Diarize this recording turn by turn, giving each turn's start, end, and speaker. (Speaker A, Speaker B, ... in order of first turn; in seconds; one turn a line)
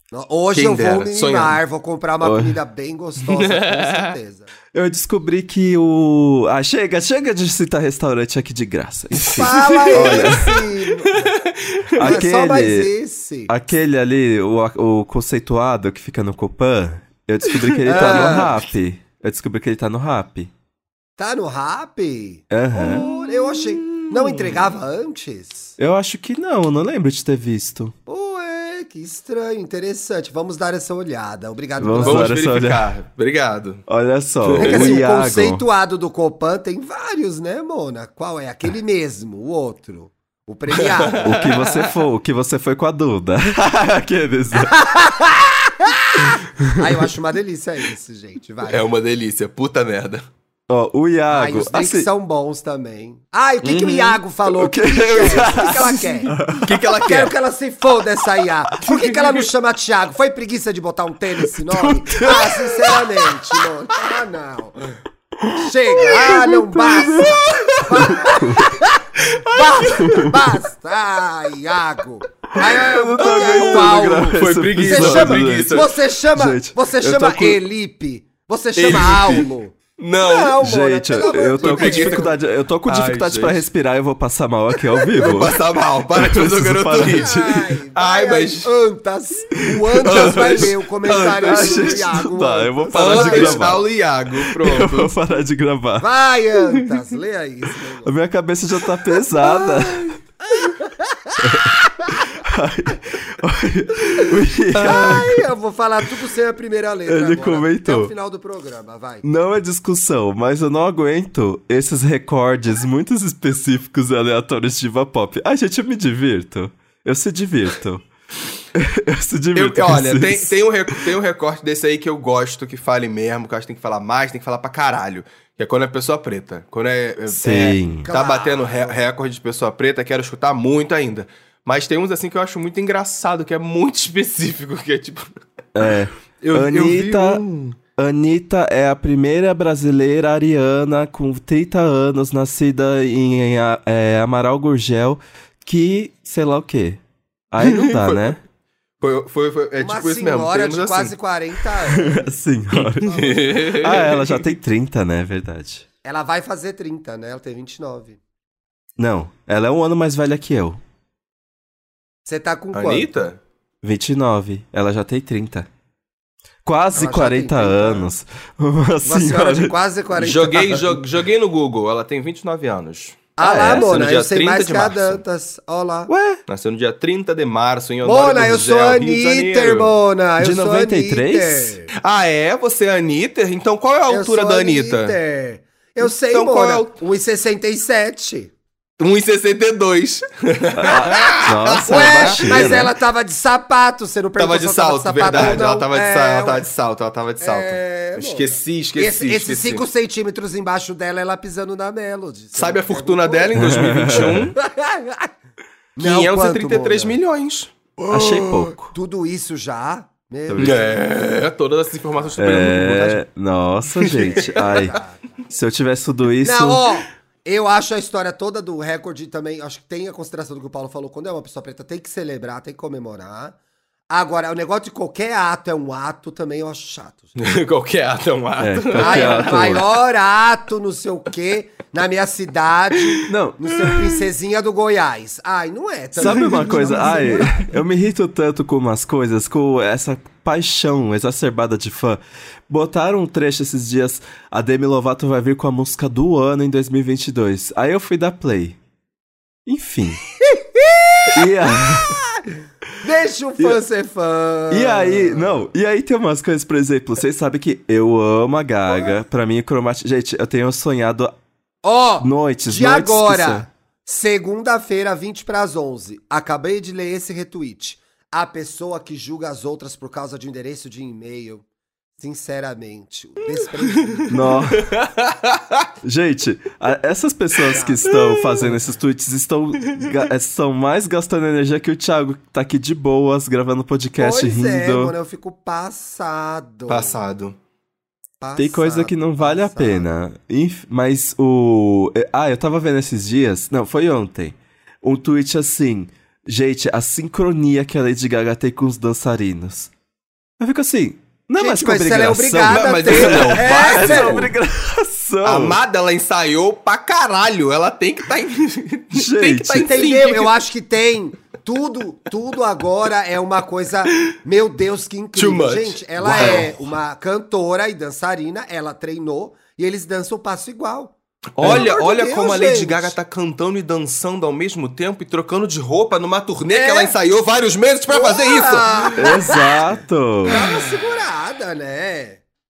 Speaker A: 0.1-4.5
Speaker B: 0.5-1.6
Speaker C: 2.2-2.6
Speaker B: 3.2-4.1
Speaker C: 4.7-10.6
Speaker B: 9.3-12.2
Speaker A: 9.3-11.3
Speaker C: 11.9-12.9
Speaker A: 12.0-13.6
Speaker C: 13.5-20.5
Speaker B: 17.5-18.4
Speaker A: 17.8-18.6
Speaker A: 21.2-25.8
Speaker C: 22.5-23.0
Speaker B: 22.8-24.5
Speaker C: 25.8-27.9
Speaker A: 28.1-32.4
Speaker C: 31.8-32.9
Speaker B: 32.0-33.8
Speaker C: 33.9-35.6
Speaker B: 34.4-35.0
Speaker A: 34.6-41.3
Speaker B: 40.7-41.9
Speaker C: 41.2-44.9
Speaker A: 44.5-48.8
Speaker C: 46.6-46.9
Speaker B: 48.7-50.2
Speaker C: 50.7-52.1
Speaker A: 51.3-56.4
Speaker B: 53.6-54.2
Speaker C: 54.5-56.8
Speaker B: 56.6-57.3
Speaker A: 57.0-65.0
Speaker C: 61.5-63.6
Speaker C: 65.4-68.8
Speaker A: 65.5-82.3
Speaker C: 69.6-70.6
Speaker C: 72.5-77.6
Speaker B: 73.2-75.9
Speaker B: 78.8-79.5
Speaker B: 80.0-80.6
Speaker C: 80.6-87.7
Speaker B: 81.6-82.3
Speaker B: 82.8-83.6
Speaker B: 85.2-88.7
Speaker A: 87.0-93.8
Speaker C: 89.7-96.1
Speaker B: 90.0-92.1
Speaker B: 92.9-95.1
Speaker A: 96.0-98.1
Speaker C: 98.0-100.2
Speaker A: 99.4-102.4
Speaker C: 101.4-105.4
Speaker B: 104.7-105.3
Speaker A: 104.7-109.2
Speaker C: 107.0-108.1
Speaker C: 109.2-118.0
Speaker C: 118.7-121.1
Speaker B: 119.5-135.3
Speaker C: 127.3-128.1
Speaker A: 127.5-129.0
Speaker C: 135.7-137.4
Speaker B: 136.4-137.8
Speaker C: 138.0-148.4
Speaker B: 147.6-148.4
Speaker B: 149.0-151.1
Speaker A: 149.8-152.3
Speaker C: 151.8-155.8
Speaker B: 152.7-154.4
Speaker A: 153.1-153.6
Speaker A: 156.0-158.2
Speaker C: 159.0-160.8
Speaker A: 162.2-163.1
Speaker B: 162.7-163.4
Speaker C: 163.8-165.7
Speaker C: 166.6-169.7
Speaker A: 166.9-168.1
Speaker A: 169.0-171.0
Speaker B: 170.2-175.2
Speaker A: 173.4-176.1
Speaker C: 173.4-173.9
Speaker C: 176.1-176.4
Speaker B: 176.5-179.9
Speaker A: 178.0-181.9
Speaker C: 180.4-181.8
Speaker B: 181.9-185.2
Speaker A: 184.1-188.5
Speaker B: 186.0-186.9
Speaker B: 189.0-192.8
Speaker C: 190.7-192.9
Speaker A: 191.8-196.7
Speaker B: 194.4-199.8
Speaker A: 197.4-205.3
Speaker B: 202.6-204.5
Speaker C: 203.5-204.5
Speaker A: 206.0-207.2
Speaker B: 206.0-208.6
Speaker C: 208.1-208.9
Speaker A: 208.8-211.2
Speaker C: 210.5-210.8
Speaker B: 210.6-213.2
Speaker C: 212.4-216.9
Speaker B: 213.9-214.9
Speaker A: 214.2-215.3
Speaker A: 216.4-223.6
Speaker A: 224.1-227.3
Speaker B: 227.3-229.8
Speaker C: 228.6-229.8
Speaker A: 228.9-237.6
Speaker C: 233.2-233.7
Speaker C: 236.2-248.8
Speaker B: 236.2-237.5
Speaker C: 249.7-250.2
Speaker A: 250.4-255.7
Speaker C: 251.3-252.2
Speaker C: 254.7-261.3
Speaker A: 261.8-271.6
Speaker C: 262.2-263.7
Speaker A: 272.2-274.4
Speaker B: 274.0-275.8
Speaker C: 274.3-274.9
Speaker C: 276.0-285.1
Speaker A: 277.7-278.1
Speaker B: 278.1-278.7
Speaker A: 284.2-287.2
Speaker B: 286.9-287.6
Speaker A: 288.4-290.1
Speaker C: 288.6-299.9
Speaker C: 300.6-305.8
Speaker A: 301.6-304.5
Speaker B: 302.6-304.5
Speaker B: 305.4-310.5
Speaker C: 309.1-310.0
Speaker A: 309.8-323.1
Speaker B: 315.4-316.8
Speaker C: 316.4-316.7
Speaker B: 321.6-329.5
Speaker C: 321.6-321.9
Speaker A: 326.7-327.1
Speaker A: 328.1-329.8
Speaker C: 329.2-330.6
Speaker A: 330.4-332.4